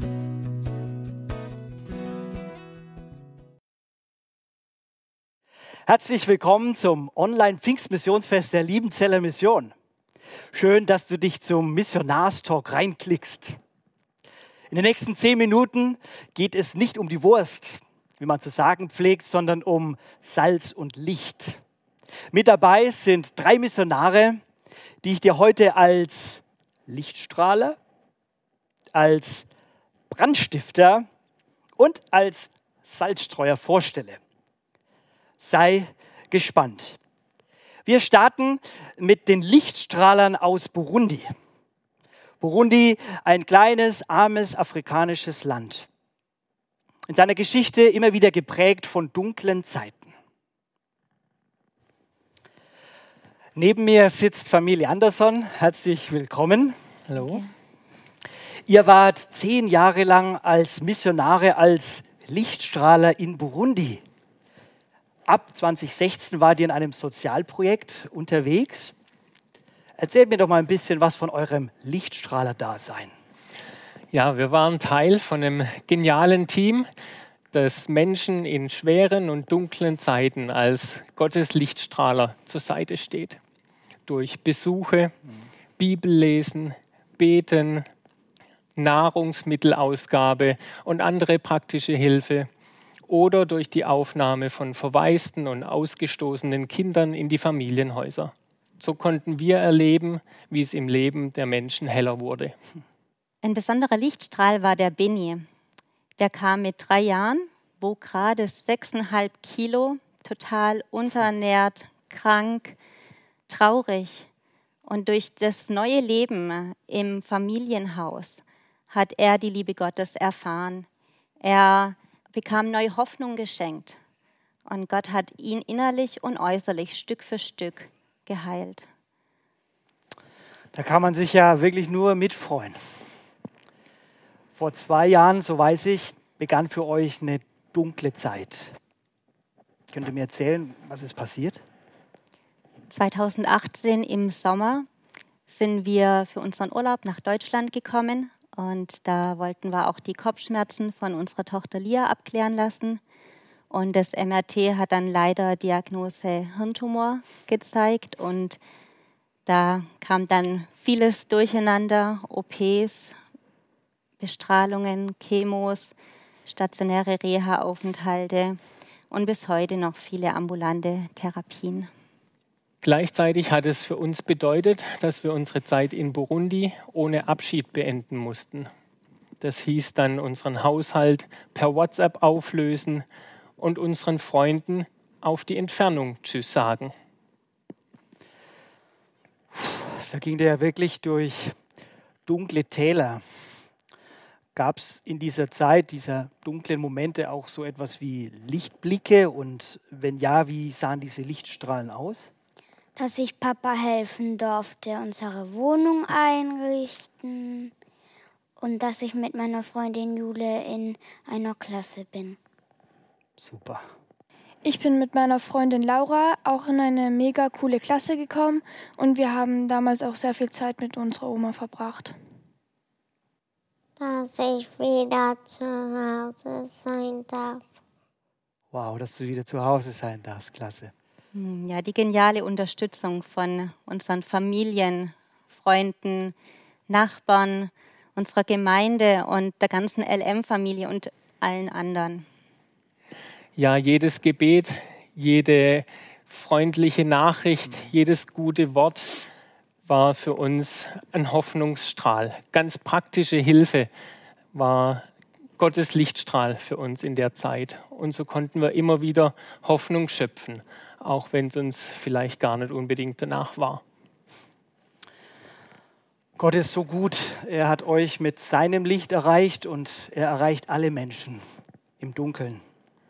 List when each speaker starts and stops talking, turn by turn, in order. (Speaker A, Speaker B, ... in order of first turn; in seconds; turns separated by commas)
Speaker A: 5.9-9.7, Speaker A: 10.5-13.6, Speaker A: 14.7-21.6, Speaker A: 22.3-24.4, Speaker A: 25.0-27.8, Speaker A: 28.9-29.5, Speaker A: 30.1-31.1, Speaker A: 31.8-34.2, Speaker A: 35.4-37.0, Speaker A: 37.9-41.3, Speaker A: 42.4-45.9, Speaker A: 47.1-50.1, Speaker A: 53.6-56.8, Speaker B: 57.1-57.4, Speaker C: 57.1-57.5, Speaker A: 58.7-64.0, Speaker A: 65.3-68.9, Speaker A: 70.0-73.1, Speaker B: 74.1-76.9, Speaker B: 77.5-83.4, Speaker B: 84.1-85.1, Speaker B: 85.8-87.8, Speaker B: 88.8-92.5, Speaker B: 93.1-102.5, Speaker C: 103.4-105.4, Speaker C: 106.2-112.8, Speaker C: 113.5-114.3, Speaker C: 114.8-120.9, Speaker C: 121.4-124.0, Speaker C: 124.7-128.9, Speaker A: 130.7-132.8, Speaker A: 134.6-138.7, Speaker A: 139.9-141.6, Speaker C: 142.9-144.9, Speaker C: 145.5-153.0, Speaker C: 153.7-158.6, Speaker C: 159.5-163.2, Speaker C: 164.2-165.9, Speaker C: 166.5-168.6, Speaker C: 169.1-171.9, Speaker B: 172.8-178.7, Speaker B: 179.4-183.1, Speaker B: 183.6-186.9, Speaker A: 189.5-191.6, Speaker A: 192.3-193.2, Speaker A: 194.6-202.3, Speaker D: 203.0-207.7, Speaker D: 208.6-212.4, Speaker A: 213.4-213.8, Speaker E: 214.6-222.2, Speaker F: 224.0-227.6, Speaker A: 228.7-230.9, Speaker C: 231.3-236.3, Speaker C: 236.9-242.2, Speaker B: 243.6-249.2, Speaker B: 249.9-253.9, Speaker B: 254.5-255.1, Speaker B: 255.6-263.8, Speaker A: 266.4-271.4, Speaker A: 272.0-272.6